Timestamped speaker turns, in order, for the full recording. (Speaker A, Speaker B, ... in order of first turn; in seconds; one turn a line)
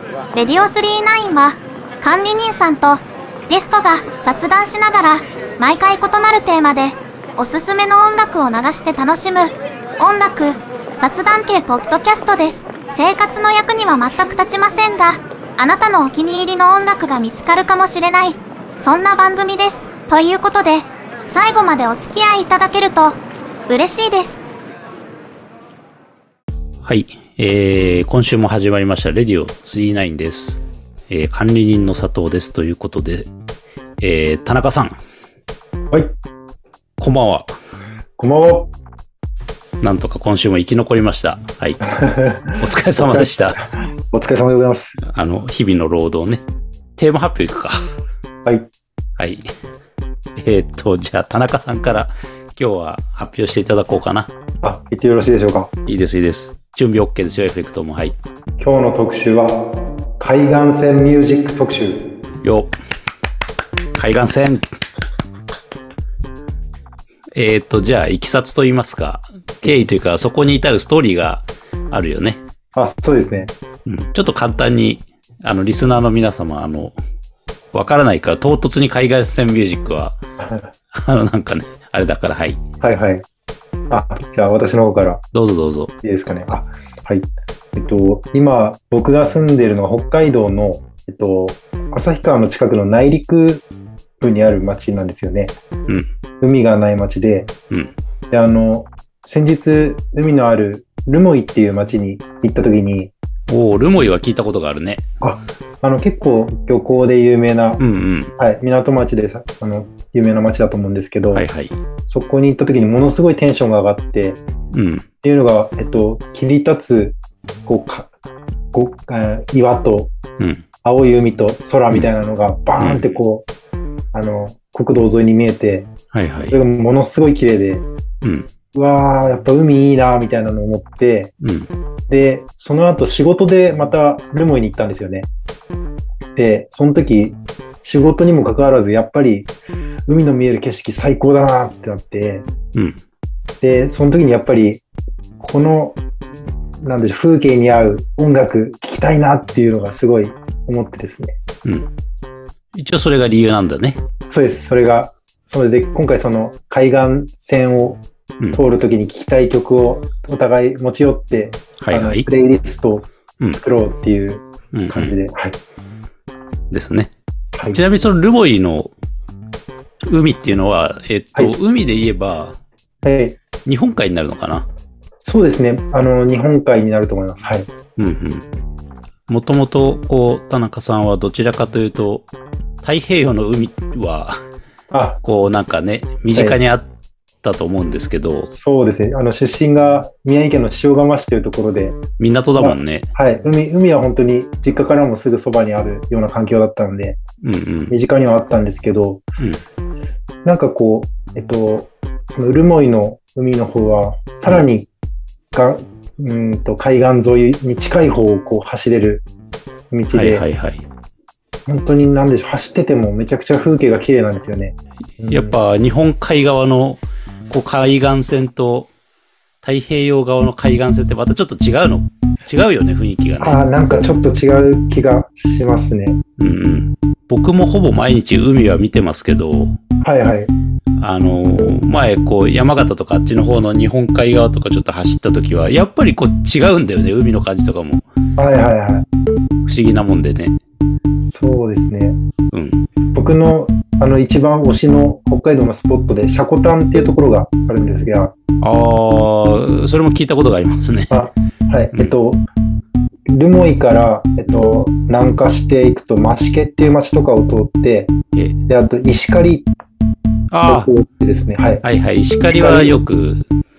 Speaker A: 0.3-24.4
Speaker B: 26.8-33.3
Speaker B: 34.0-35.0
Speaker B: 37.0-37.5
Speaker C: 38.2-38.7
Speaker B: 39.8-41.9
Speaker C: 41.9-45.0
Speaker B: 42.5-43.6
Speaker B: 45.1-46.4
Speaker B: 47.0-47.8
Speaker B: 49.2-49.5
Speaker B: 50.4-54.3
Speaker C: 54.6-55.7
Speaker B: 55.9-58.1
Speaker C: 58.6-62.1
Speaker B: 62.4-62.7
Speaker B: 64.0-64.7
Speaker B: 67.3-72.4
Speaker C: 72.7-73.5
Speaker B: 73.8-76.9
Speaker B: 77.7-80.2
Speaker C: 80.4-80.7
Speaker B: 80.9-82.6
Speaker C: 82.8-83.2
Speaker C: 83.9-85.2
Speaker B: 85.3-85.9
Speaker C: 86.0-93.6
Speaker C: 94.2-95.5
Speaker C: 96.4-97.5
Speaker C: 98.3-103.1
Speaker B: 103.5-105.0
Speaker C: 105.2-107.8
Speaker B: 107.8-108.3
Speaker C: 108.4-111.5
Speaker B: 111.3-111.8
Speaker C: 112.1-114.4
Speaker B: 114.7-115.0
Speaker C: 115.2-118.1
Speaker C: 118.7-120.1
Speaker B: 120.4-120.6
Speaker C: 120.8-123.5
Speaker B: 122.8-123.1
Speaker C: 124.1-125.9
Speaker B: 126.1-126.6
Speaker C: 126.5-127.8
Speaker B: 128.2-128.5
Speaker C: 128.7-131.3
Speaker B: 131.4-131.7
Speaker C: 132.1-135.3
Speaker C: 136.3-139.5
Speaker C: 140.1-142.5
Speaker B: 142.7-143.0
Speaker C: 143.6-144.8
Speaker C: 145.4-146.0
Speaker C: 146.8-151.4
Speaker B: 152.7-154.0
Speaker C: 154.3-158.0
Speaker C: 158.5-165.6
Speaker B: 161.8-162.3
Speaker B: 164.7-165.2
Speaker B: 166.7-167.1
Speaker B: 167.7-168.9
Speaker B: 170.1-172.5
Speaker C: 173.0-173.4
Speaker B: 173.6-174.7
Speaker C: 175.2-177.7
Speaker B: 178.0-178.4
Speaker B: 179.3-182.3
Speaker B: 182.8-184.3
Speaker C: 184.9-185.2
Speaker B: 185.2-186.9
Speaker B: 187.4-188.5
Speaker C: 188.5-192.0
Speaker B: 192.2-193.1
Speaker C: 192.6-197.2
Speaker B: 197.4-197.9
Speaker C: 197.9-199.2
Speaker C: 200.4-204.9
Speaker C: 205.5-209.2
Speaker C: 209.9-210.4
Speaker B: 210.1-210.8
Speaker C: 211.7-215.6
Speaker B: 215.3-218.9
Speaker B: 219.6-223.6
Speaker C: 223.4-226.2
Speaker B: 226.4-229.8
Speaker C: 230.0-230.5
Speaker B: 231.0-238.0
Speaker C: 238.4-239.1
Speaker B: 239.7-240.5
Speaker C: 241.2-242.2
Speaker B: 242.5-242.8
Speaker C: 243.1-248.3
Speaker B: 248.6-251.2
Speaker C: 251.1-252.4
Speaker C: 253.3-258.1
Speaker C: 258.7-259.7
Speaker B: 260.5-260.9
Speaker C: 260.6-261.8
Speaker B: 261.8-263.4
Speaker C: 262.4-262.9